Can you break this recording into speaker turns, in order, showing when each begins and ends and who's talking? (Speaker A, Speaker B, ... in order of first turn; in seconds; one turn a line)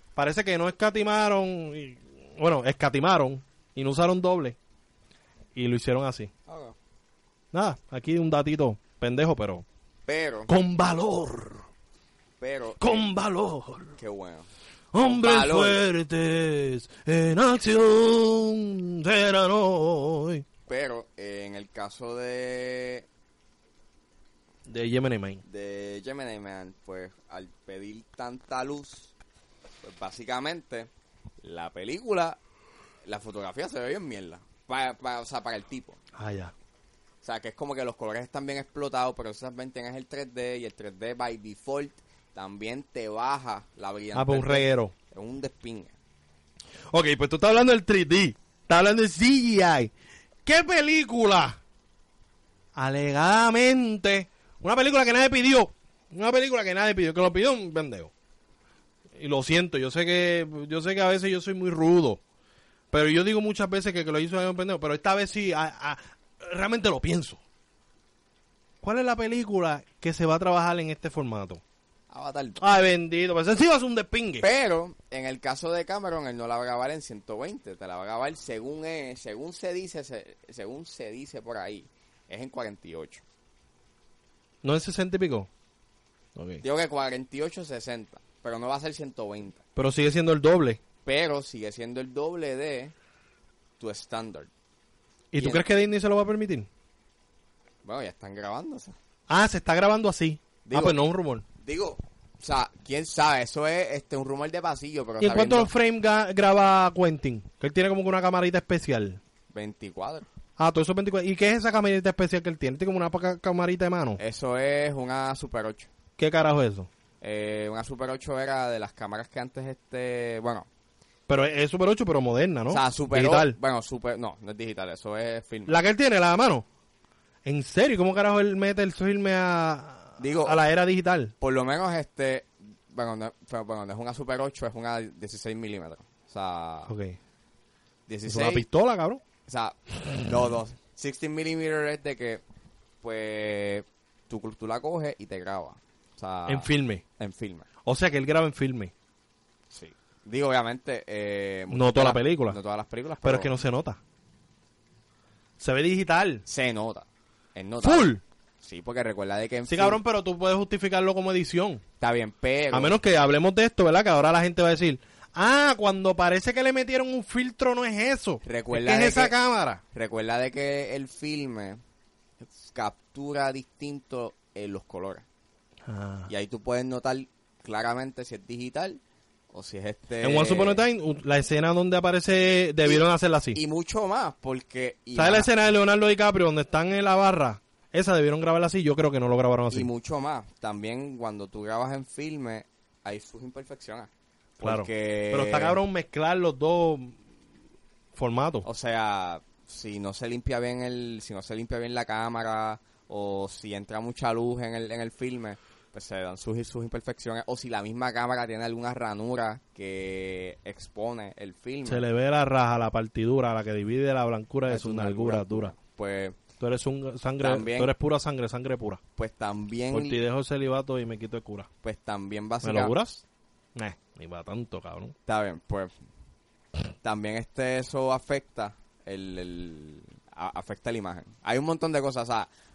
Speaker A: 0.1-4.6
Speaker A: 5.5-6.3
Speaker B: 6.5-6.7
Speaker A: 7.5-9.6
Speaker B: 10.1-10.5
Speaker A: 10.5-11.7
Speaker B: 12.4-13.1
Speaker A: 12.8-13.9
Speaker B: 14.0-14.5
Speaker A: 14.9-20.4
Speaker B: 15.0-15.8
Speaker B: 20.7-23.1
Speaker A: 24.7-25.4
Speaker B: 25.4-29.1
Speaker B: 29.8-30.9
Speaker B: 31.4-32.4
Speaker B: 33.0-36.0
Speaker A: 36.1-36.5
Speaker B: 37.2-45.9
Speaker A: 44.1-44.9
Speaker A: 46.9-49.9
Speaker A: 50.5-51.6
Speaker A: 52.7-58.1
Speaker A: 59.1-62.2
Speaker A: 62.9-67.4
Speaker A: 68.8-71.6
Speaker B: 72.1-72.6
Speaker A: 72.6-74.4
Speaker B: 74.4-83.2
Speaker A: 84.6-85.5
Speaker A: 86.3-86.6
Speaker B: 86.6-89.6
Speaker A: 89.8-90.8
Speaker B: 91.0-92.9
Speaker B: 93.8-94.5
Speaker A: 95.3-96.7
Speaker B: 95.4-95.6
Speaker B: 97.8-99.0
Speaker A: 99.3-101.4
Speaker B: 100.6-101.0
Speaker B: 101.6-105.7
Speaker A: 105.2-109.2
Speaker B: 109.5-110.3
Speaker A: 110.6-114.2
Speaker B: 114.2-115.9
Speaker A: 116.2-116.9
Speaker B: 117.2-120.7
Speaker A: 121.3-123.5
Speaker B: 122.7-125.8
Speaker A: 125.7-126.7
Speaker A: 127.4-131.3
Speaker B: 130.2-130.6
Speaker B: 131.4-136.9
Speaker A: 136.9-137.2
Speaker B: 138.1-138.7
Speaker A: 138.3-139.2
Speaker B: 139.4-142.4
Speaker B: 143.0-147.7
Speaker A: 146.5-147.0
Speaker A: 147.8-148.9
Speaker B: 149.7-153.5
Speaker A: 151.7-152.6
Speaker A: 153.2-154.0
Speaker A: 155.6-156.4
Speaker B: 156.4-160.0
Speaker A: 157.8-158.2
Speaker A: 159.7-161.8
Speaker B: 162.0-163.0
Speaker A: 162.7-169.8
Speaker B: 168.4-169.3
Speaker B: 169.9-171.8
Speaker B: 172.4-175.2
Speaker A: 175.8-176.3
Speaker B: 176.3-179.0
Speaker B: 179.5-180.8
Speaker A: 180.2-183.6
Speaker B: 182.8-185.5
Speaker A: 185.2-189.9
Speaker B: 189.7-195.8
Speaker A: 194.6-197.2
Speaker A: 198.1-198.7
Speaker B: 198.6-212.0
Speaker A: 211.8-215.7
Speaker B: 214.7-216.4
Speaker A: 216.6-219.0
Speaker B: 217.4-217.9
Speaker B: 219.2-220.2
Speaker A: 219.9-221.7
Speaker B: 221.8-222.9
Speaker A: 222.6-223.2
Speaker A: 223.7-225.1
Speaker B: 225.2-225.9
Speaker B: 227.0-232.5